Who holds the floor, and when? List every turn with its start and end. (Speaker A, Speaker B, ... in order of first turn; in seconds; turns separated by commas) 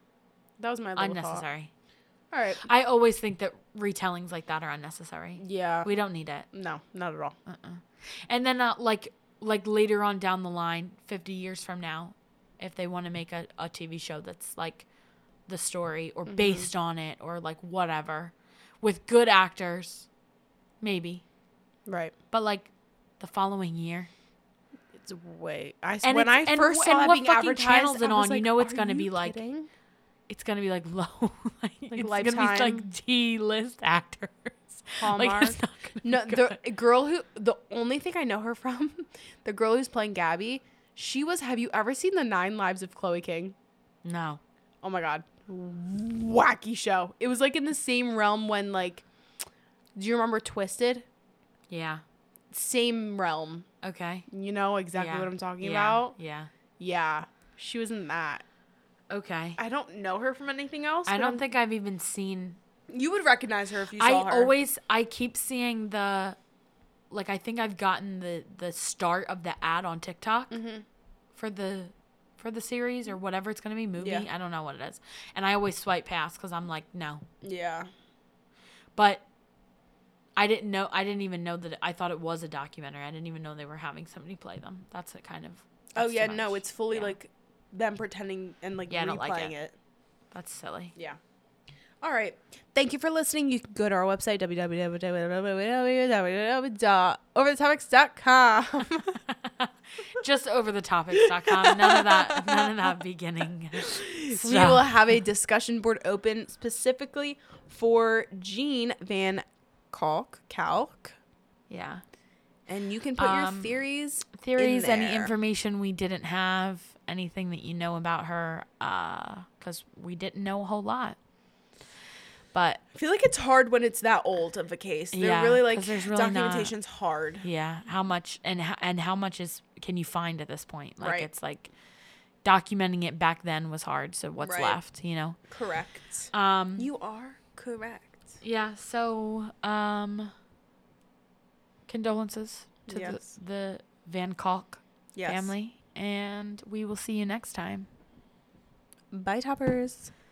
Speaker A: 0.6-1.4, Speaker B: 1.0-1.7, Speaker A: 2.3-2.6, Speaker B: 2.6-6.5, Speaker A: 5.4-5.9, Speaker A: 6.5-7.3, Speaker B: 7.5-14.8, Speaker B: 15.5-20.1, Speaker A: 16.3-16.7, Speaker B: 20.8-21.2, Speaker A: 21.9-22.1, Speaker B: 22.3-24.1, Speaker A: 24.9-29.7, Speaker B: 26.0-29.4, Speaker B: 30.3-36.6, Speaker A: 31.9-32.9, Speaker A: 35.0-43.5, Speaker B: 44.0-44.4, Speaker A: 44.8-49.0, Speaker A: 50.0-51.0, Speaker B: 51.7-52.0, Speaker A: 52.5-53.6, Speaker B: 53.8-54.3, Speaker A: 54.3-56.1, Speaker B: 55.0-56.5, Speaker A: 56.8-58.4, Speaker B: 59.1-59.6, Speaker A: 59.6-61.4, Speaker B: 61.1-62.6, Speaker A: 62.9-64.5, Speaker B: 64.0-66.4, Speaker B: 67.1-70.6, Speaker A: 70.5-70.8, Speaker B: 71.3-77.2, Speaker A: 74.0-74.2, Speaker A: 77.4-77.9, Speaker B: 79.0-79.2, Speaker B: 80.4-87.1, Speaker A: 86.0-89.7, Speaker B: 88.9-89.5, Speaker B: 90.3-90.9, Speaker A: 92.0-99.2, Speaker B: 99.1-104.9, Speaker A: 101.2-102.9, Speaker A: 103.8-111.2, Speaker B: 111.7-112.0, Speaker A: 112.7-115.3, Speaker B: 113.2-121.2, Speaker B: 122.5-122.8, Speaker A: 122.9-127.4, Speaker B: 125.1-126.7, Speaker B: 127.4-131.7, Speaker A: 131.0-131.3, Speaker B: 132.4-135.4, Speaker A: 134.4-134.8, Speaker A: 135.5-138.4, Speaker B: 136.3-136.9, Speaker B: 138.4-140.3, Speaker B: 141.9-147.9, Speaker A: 142.9-143.3, Speaker A: 145.1-145.5, Speaker A: 149.1-150.1